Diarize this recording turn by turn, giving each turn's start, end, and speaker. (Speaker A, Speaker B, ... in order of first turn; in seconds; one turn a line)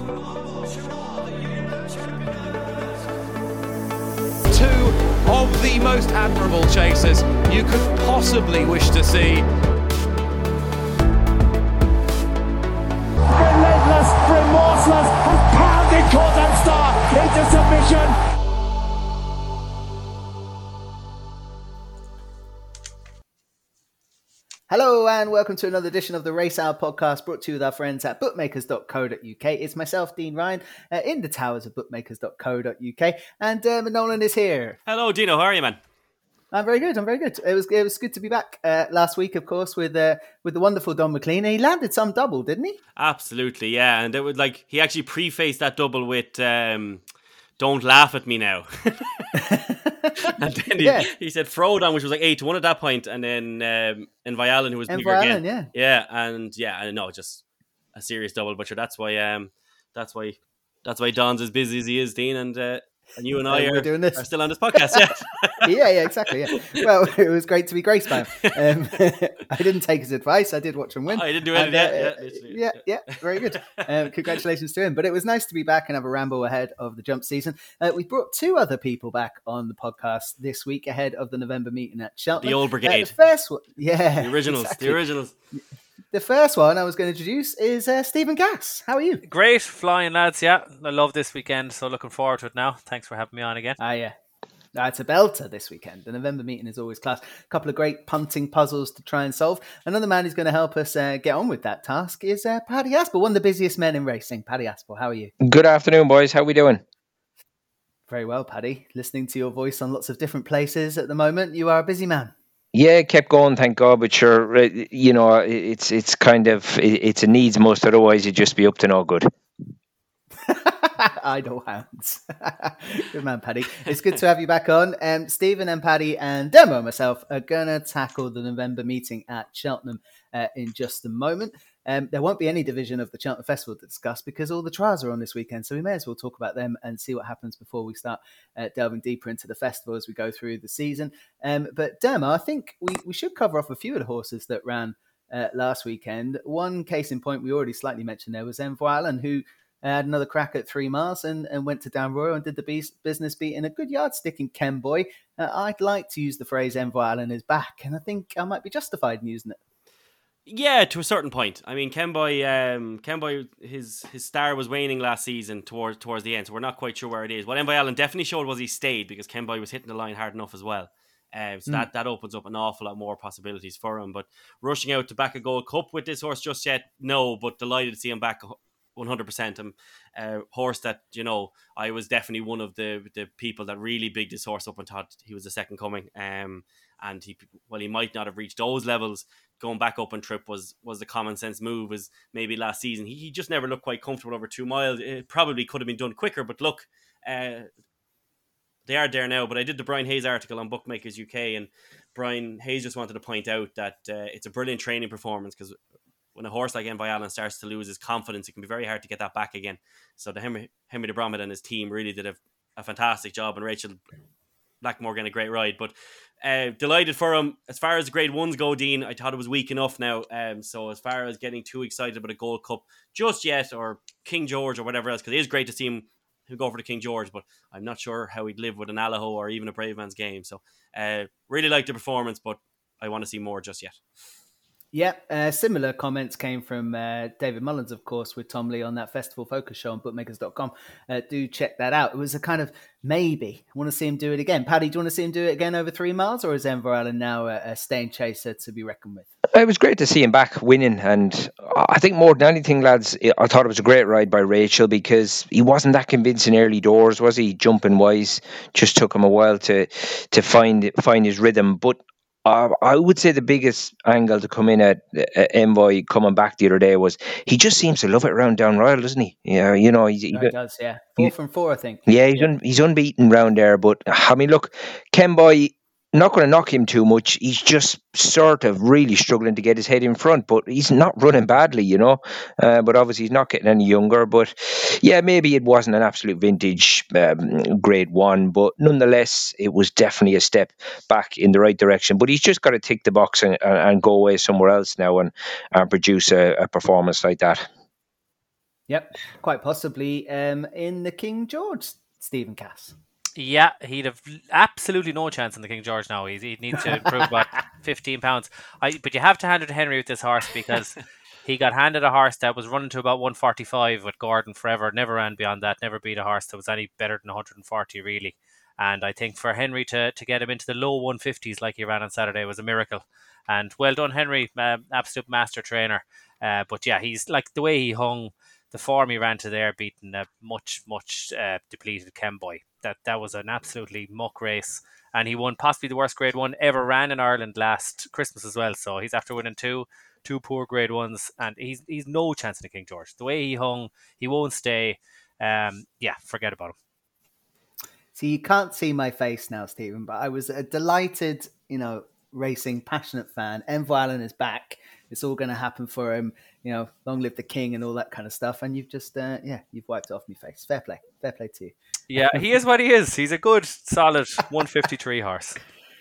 Speaker A: 4.5-9.5
Speaker B: 13.3-18.2
Speaker C: 24.7-34.8
Speaker D: 34.9-35.8
Speaker C: 36.5-42.8
Speaker D: 43.0-47.0
Speaker D: 47.6-49.4
Speaker C: 49.4-51.1
Speaker D: 50.2-57.4
Speaker C: 54.9-55.7
Speaker D: 58.0-65.8
Speaker C: 63.5-65.1
Speaker C: 65.6-85.0
Speaker D: 66.5-66.8
Speaker D: 68.3-68.8
Speaker D: 71.1-72.8
Speaker D: 73.3-73.8
Speaker D: 82.4-83.1
Speaker D: 84.2-85.3
Speaker C: 86.1-89.2
Speaker E: 89.2-93.8
Speaker C: 93.8-94.1
Speaker C: 94.7-105.3
Speaker F: 105.4-106.8
Speaker C: 108.1-112.3
Speaker F: 112.7-119.3
Speaker C: 120.4-159.6
Speaker D: 160.5-197.7
Speaker D: 198.8-205.8
Speaker D: 206.3-214.0
Speaker D: 214.8-234.0
Speaker C: 234.9-249.3
Speaker F: 249.5-270.5
Speaker C: 270.3-272.5
Speaker F: 272.1-297.7
Speaker C: 298.9-302.9
Speaker E: 303.4-346.8
Speaker C: 348.1-361.7
Speaker E: 362.1-365.6